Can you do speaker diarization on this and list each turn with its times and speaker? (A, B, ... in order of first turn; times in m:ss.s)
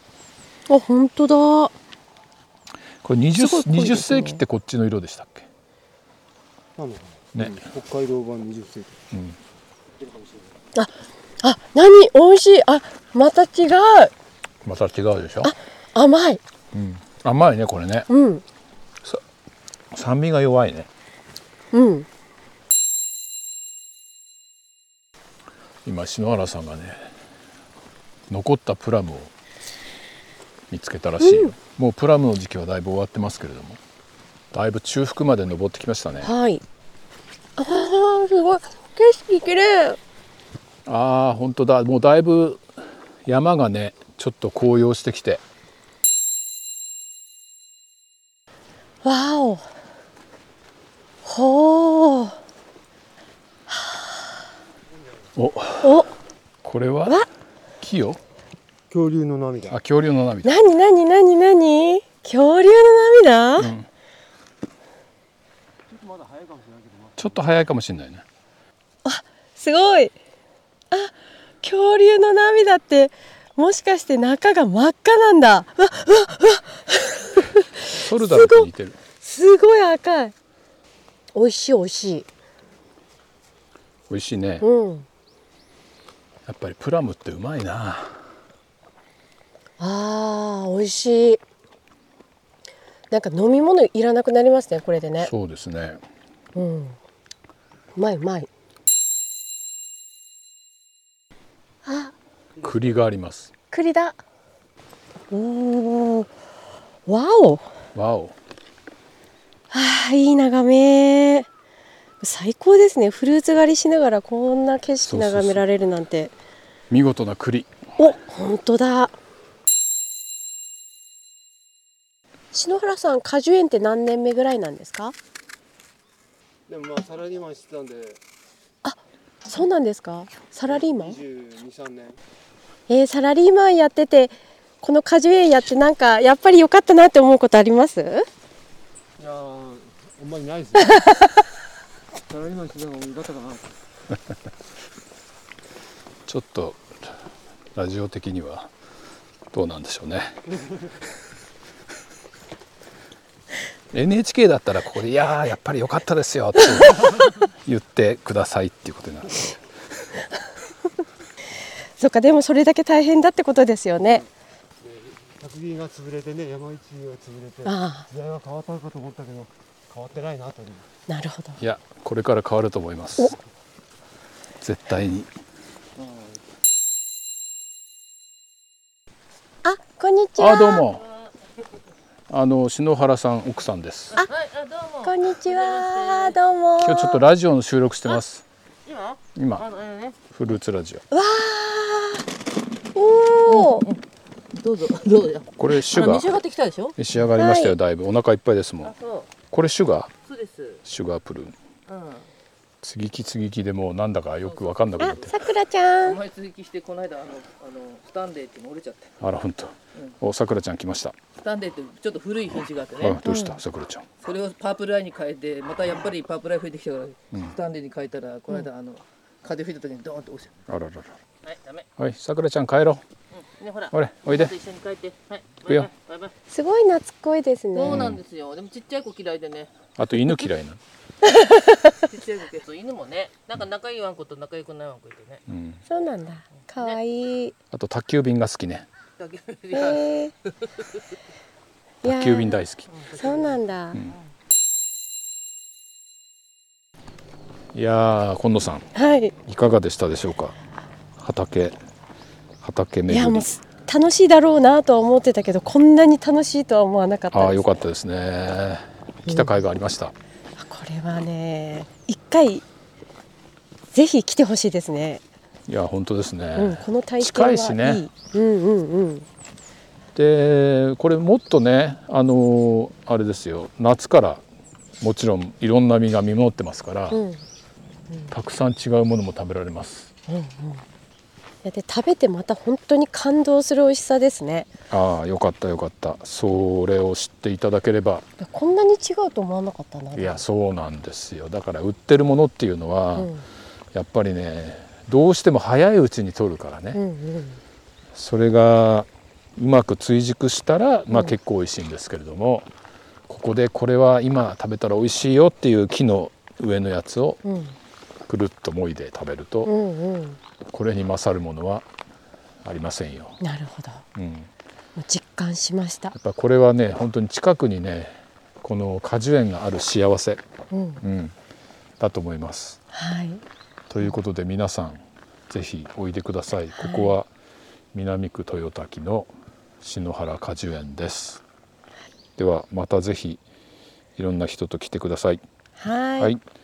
0:00.7-0:01.8 A
0:03.0-0:05.5 B
0:03.4-0:04.4 A
0:06.8-0:09.0 C
0:09.1-0:09.4 B
0:10.0-0:10.6 C
0:10.8-0:14.1 A
0:14.6-0:15.5 B
0:15.4-0:16.4 A
0:16.7-0:18.1 B
0:18.1-0:18.4 A
0:19.9-0:20.9 B
0:21.7-0:22.1 A
0:25.8-0:27.1 B
0:28.3-0:29.3 B
0:30.7-0:33.8 B
0:31.2-0:31.6 A
0:34.5-0:36.3 B
0:36.2-0:36.6 A
0:37.6-0:40.0 A
0:40.9-0:42.7 B
0:43.2-0:45.4 B
0:49.0-0:49.7 A
0:51.2-0:52.4 A
0:53.7-0:54.3 A
0:55.4-0:56.1 B
0:55.8-0:56.1 A
0:56.6-0:57.3 B
0:57.8-0:58.2 B
0:58.9-0:59.8 C
0:59.7-1:00.6 B
1:00.4-1:03.7 A
1:03.6-1:03.9 B
1:05.9-1:07.4 C
1:07.2-1:08.2 B
1:09.0-1:10.2 A
1:10.9-1:18.7 A
1:17.9-1:19.0 B
1:19.2-1:20.3 A
1:21.4-1:22.3 A
1:24.1-1:24.6 B
1:24.6-1:25.1 A
1:26.5-1:28.3 B
1:29.8-1:31.4 A
1:33.1-1:35.3 A
1:35.2-1:36.0 B
1:36.6-1:37.0 A
1:38.0-1:38.5 A
1:41.8-1:42.1 A
1:42.6-1:43.5 B
1:43.7-1:44.2 A
1:45.3-1:46.3 A
1:47.1-1:47.7 A
1:48.0-1:48.4 B
1:49.7-1:51.5 A
1:52.2-1:56.3 A
1:55.0-1:55.6 B
1:56.9-1:57.7 B
1:58.0-1:59.2 A
2:02.5-2:05.2 A
2:06.7-2:08.2 C
2:08.8-2:11.2 A
2:10.7-2:12.2 C
2:12.9-2:18.3 A
2:19.2-2:21.1 C
2:20.9-2:21.3 A
2:22.3-2:23.7 C
2:26.3-2:27.1 B
2:27.8-2:28.7 B
2:29.5-2:30.4 B
2:33.9-2:39.6 B
2:42.0-2:44.2 A
2:44.8-2:50.9 C
2:47.6-2:48.1 A
2:51.1-2:51.6 A
2:51.6-2:53.4 B
2:54.6-2:55.3 B
2:59.6-3:00.8 A
3:00.4-3:01.1 B
3:02.3-3:04.2 B
3:04.2-3:06.4 D
3:05.0-3:07.2 A
3:06.8-3:08.4 B
3:08.9-3:10.2 D
3:09.4-3:09.7 B
3:10.3-3:11.0 B
3:11.1-3:12.2 A
3:13.0-3:13.9 A
3:13.5-3:14.0 D
3:14.5-3:17.0 D
3:15.6-3:16.3 B
3:17.0-3:18.9 B
3:17.4-3:17.8 A
3:18.8-3:19.3 D
3:19.5-3:20.1 B
3:20.3-3:20.8 D
3:20.8-3:21.6 B
3:21.9-3:22.3 D
3:22.8-3:25.4 B
3:24.5-3:25.3 D
3:25.0-3:26.2 A
3:26.0-3:29.2 D
3:29.2-3:31.2 B
3:31.4-3:33.2 D
3:33.0-3:34.1 B
3:33.2-3:33.6 A
3:34.2-3:40.6 D
3:40.7-3:41.1 B
3:41.4-3:41.9 D
3:42.0-3:43.0 B
3:43.3-3:46.4 D
3:43.9-3:44.5 B
3:46.5-3:48.1 A
3:47.8-3:50.4 D
3:47.8-3:48.2 B
3:50.0-3:50.8 B
3:51.3-3:51.8 A
3:52.0-3:55.4 D
3:55.5-3:55.8 B
3:55.9-3:57.6 A
3:57.7-3:58.9 B
3:59.2-4:01.0 D
3:59.7-4:00.3 A
4:02.0-4:04.0 A
4:02.0-4:02.9 B
4:02.9-4:03.6 D
4:07.7-4:08.9 B
4:08.9-4:09.4 A
4:09.5-4:10.6 B
4:11.2-4:11.8 B
4:12.6-4:13.5 B
4:13.1-4:17.7 A
4:17.3-4:20.1 B
4:19.3-4:19.6 A
4:20.6-4:22.6 A
4:23.9-4:25.2 A
4:25.7-4:28.1 B
4:26.6-4:29.3 A
4:30.2-4:34.4 B
4:35.0-4:37.2 B
4:37.1-4:37.4 A
4:38.3-4:40.1 B
4:40.3-4:40.8 A
4:41.6-4:44.7 A
4:44.9-4:48.2 B
4:48.4-4:50.4 A
4:50.1-4:53.3 B
4:53.2-4:53.4 A
4:53.9-4:57.0 B
4:56.9-4:57.6 A
4:58.2-5:02.7 B
5:03.3-5:07.4 B
5:07.4-5:07.8 A
5:08.3-5:09.7 B
5:09.7-5:10.4 A
5:10.7-5:11.8 B
5:12.6-5:13.4 B
5:13.4-5:14.0 A
5:14.2-5:14.5 B
5:15.0-5:16.1 A
5:16.1-5:20.4 B
5:20.7-5:21.0 A
5:21.0-5:21.4 B
5:22.0-5:22.8 B
5:22.9-5:23.4 A
5:23.9-5:27.3 B
5:26.7-5:27.1 A
5:27.9-5:29.3 B
5:29.8-5:31.4 B
5:32.4-5:33.4 B
5:34.2-5:35.4 B
5:35.8-5:36.3 A